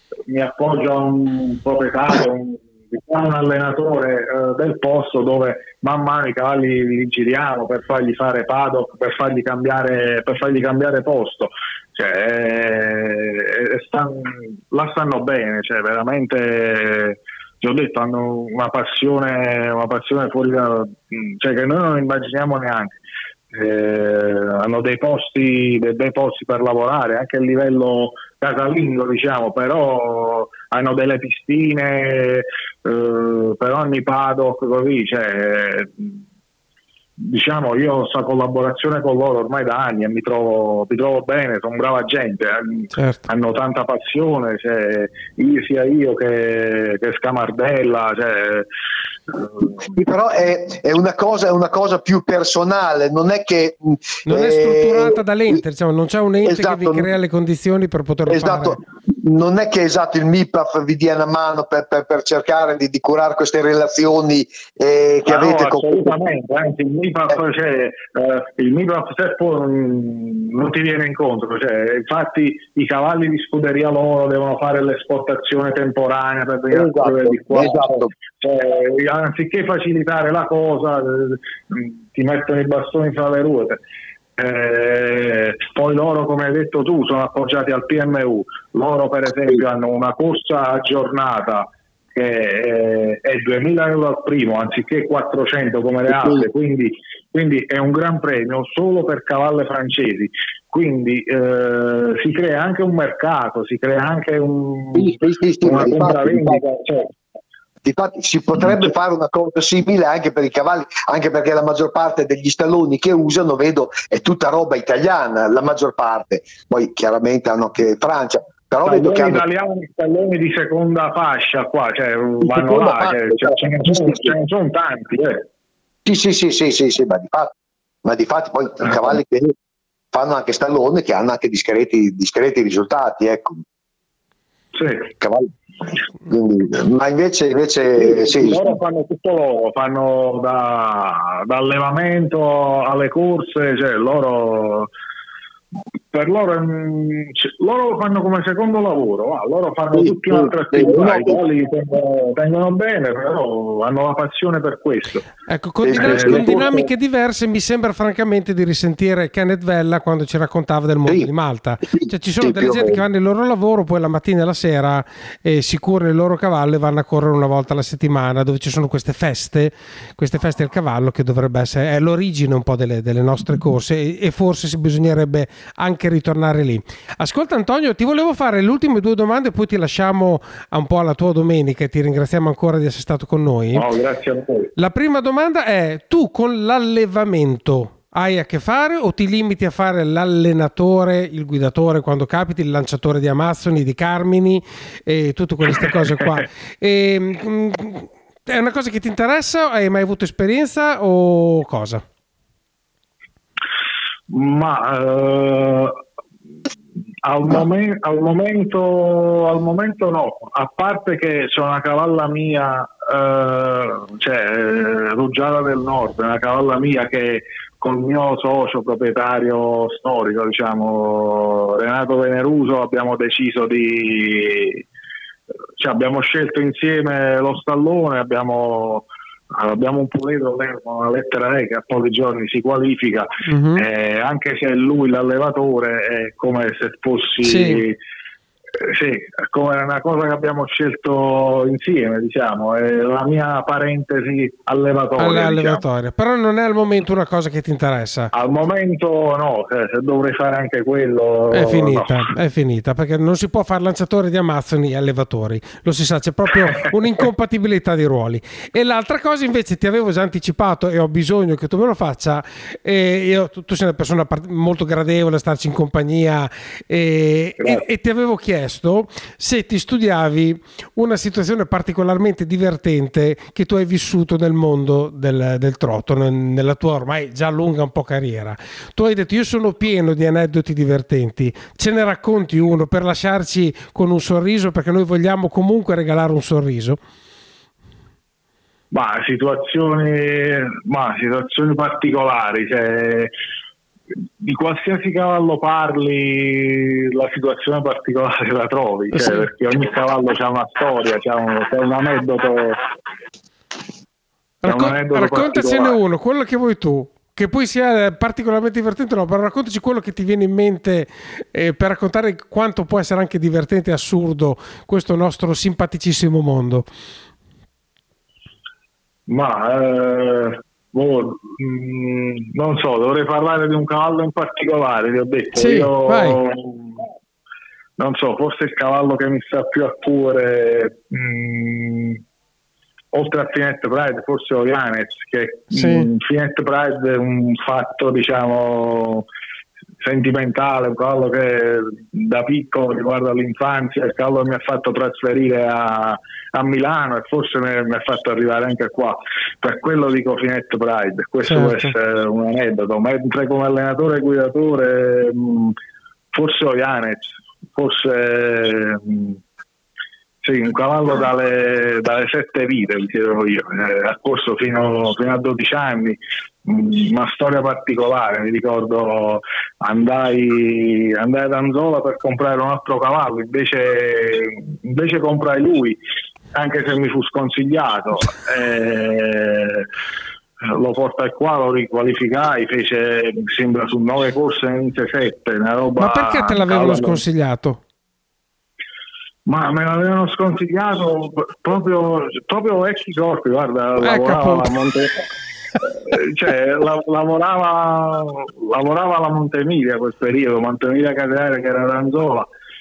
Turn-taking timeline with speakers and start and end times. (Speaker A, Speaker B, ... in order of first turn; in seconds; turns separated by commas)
Speaker A: 0.3-23.0, Speaker A: 23.5-36.2, Speaker A: 37.2-48.7, Speaker B: 42.9-43.2, Speaker A: 49.3-49.7, Speaker C: 49.8-55.6, Speaker B: 54.3-58.8, Speaker C: 56.4-57.1, Speaker C: 58.3-66.1, Speaker A: 65.3-83.8, Speaker C: 76.7-78.1, Speaker A: 84.4-107.1, Speaker C: 96.1-96.5, Speaker C: 104.9-106.6, Speaker C: 107.8-119.5, Speaker A: 118.8-125.5, Speaker C: 122.4-124.3, Speaker C: 126.0-127.5, Speaker C: 128.0-129.6, Speaker C: 130.1-133.6, Speaker A: 134.7-135.1, Speaker C: 135.2-135.5, Speaker C: 136.2-138.8, Speaker A: 138.0-144.9, Speaker A: 146.1-155.3, Speaker C: 149.9-151.4, Speaker B: 155.5-183.9, Speaker C: 155.8-156.8, Speaker A: 155.9-156.9, Speaker C: 161.9-163.0, Speaker A: 183.7-184.7, Speaker B: 184.8-202.0, Speaker A: 204.3-206.0, Speaker A: 207.2-224.8, Speaker A: 225.8-238.0, Speaker B: 233.5-233.8, Speaker B: 237.4-237.8, Speaker A: 238.8-245.8, Speaker B: 245.2-248.3, Speaker A: 248.3-252.3, Speaker B: 251.5-287.0, Speaker A: 267.6-267.8, Speaker A: 288.9-293.3, Speaker A: 294.4-302.8, Speaker B: 299.1-299.5, Speaker B: 304.6-316.9, Speaker A: 304.6-306.0, Speaker A: 319.3-327.0, Speaker B: 325.6-326.4, Speaker A: 328.0-332.2, Speaker A: 333.1-339.2, Speaker B: 335.7-336.1, Speaker A: 340.0-355.8, Speaker B: 351.5-351.9, Speaker A: 356.3-359.4, Speaker A: 360.4-376.0, Speaker A: 376.5-379.9, Speaker A: 380.6-387.2, Speaker B: 386.0-387.8, Speaker A: 389.5-395.2, Speaker B: 394.0-394.7, Speaker A: 395.9-402.5